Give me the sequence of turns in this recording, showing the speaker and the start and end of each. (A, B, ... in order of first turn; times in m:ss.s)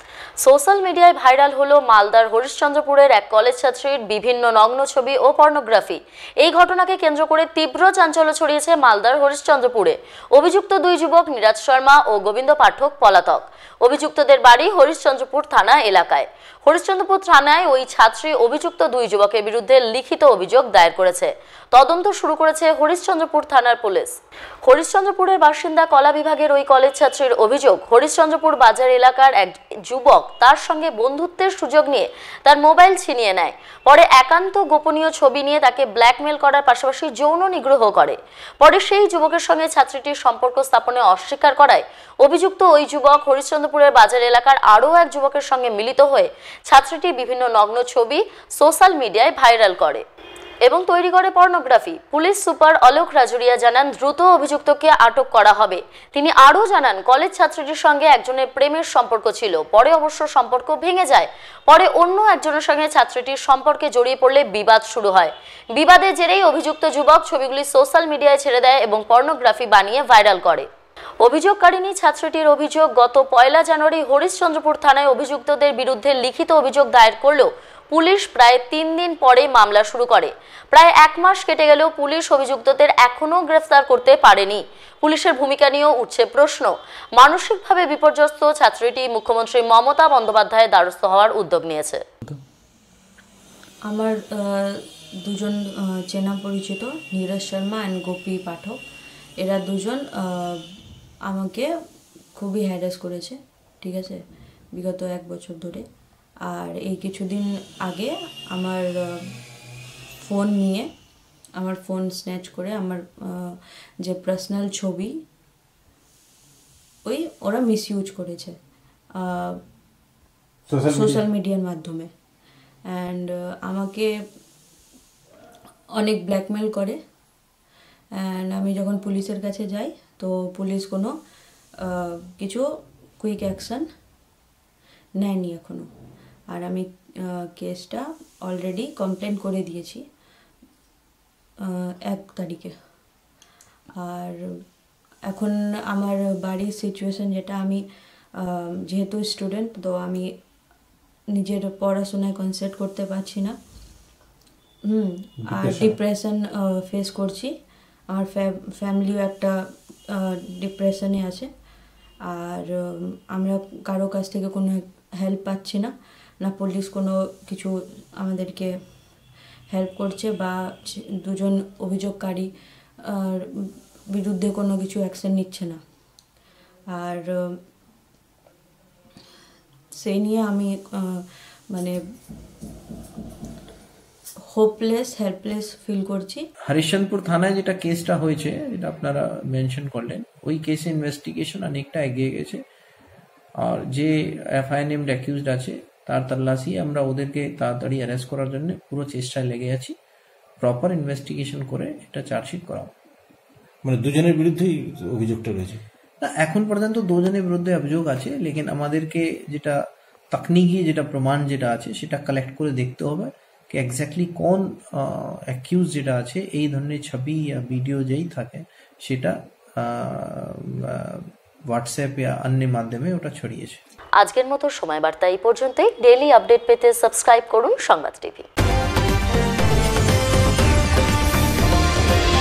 0:00.4-0:24.1 A
0:24.6-0:50.0 A
0:50.6-1:10.7 A
1:11.2-1:32.0 A
1:33.9-1:38.8 B
1:39.4-1:40.6 B
1:41.3-1:41.7 B
1:42.4-1:44.2 B
1:44.7-1:45.8 B
1:46.4-1:49.3 B
1:50.2-1:50.9 B
1:51.6-1:55.1 B
1:57.0-1:58.6 B
1:59.2-1:59.6 B
2:00.7-2:01.2 C
2:00.9-2:02.1 B
2:02.9-2:04.1 B
2:06.0-2:07.0 B
2:08.2-2:11.1 B
2:11.8-2:12.6 B
2:13.2-2:13.8 B
2:15.2-2:15.9 B
2:16.5-2:20.0 B
2:21.6-2:22.7 B
2:24.0-2:24.4 B
2:25.3-2:27.8 B
2:28.4-2:30.3 B
2:31.3-2:33.6 B
2:34.8-2:37.5 B
2:35.4-2:35.9 C
2:38.1-2:39.6 B
2:40.1-2:41.5 B
2:42.2-2:48.7 B
2:49.7-2:52.5 B
2:53.0-2:55.8 B
2:56.9-2:57.5 B
3:00.0-3:02.0 B
3:04.5-3:06.4 B
3:06.7-3:12.6 D
3:13.6-3:19.9 D
3:20.6-3:22.9 D
3:23.8-3:25.8 C
3:26.2-3:29.8 D
3:30.3-3:43.8 D
3:44.2-3:48.5 A